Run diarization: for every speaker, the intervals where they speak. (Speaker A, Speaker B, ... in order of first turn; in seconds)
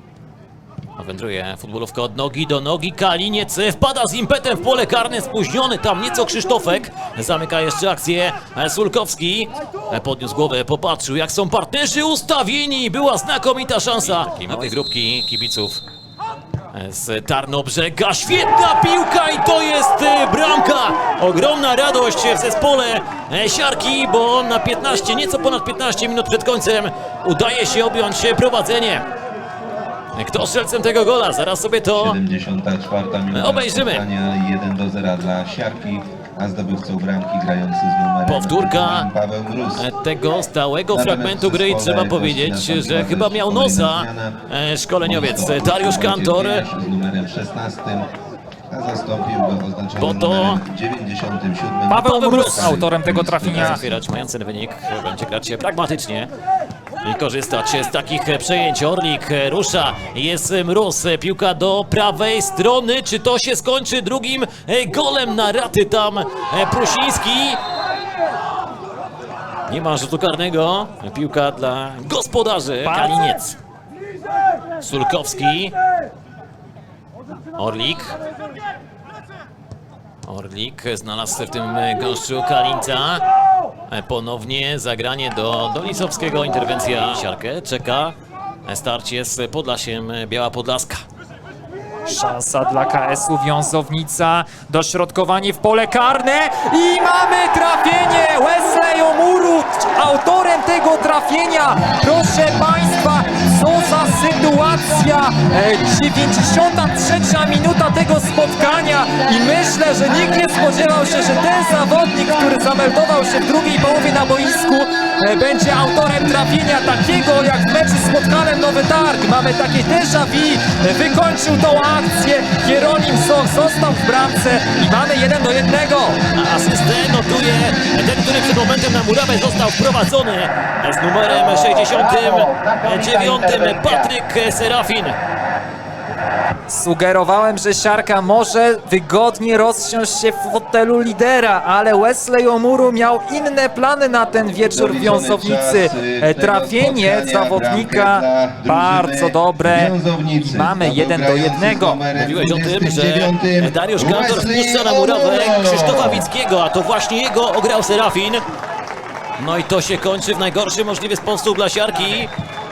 Speaker A: 1.0-15.8, 16.7-29.1, 30.1-32.2, 33.3-34.0, 38.2-39.1, 39.8-46.6, 50.0-50.6, 52.2-56.3, 57.0-67.6, 69.7-73.6, 74.8-75.7, 77.5-78.2, 80.2-83.2, 83.9-91.0, 126.3-135.2, 152.2-158.4, 159.4-162.3
Speaker B: 31.9-39.9, 40.9-44.4, 45.0-48.1, 48.7-53.9, 144.7-156.3
Speaker C: 51.9-53.8, 72.8-73.3, 92.0-126.2, 136.7-152.0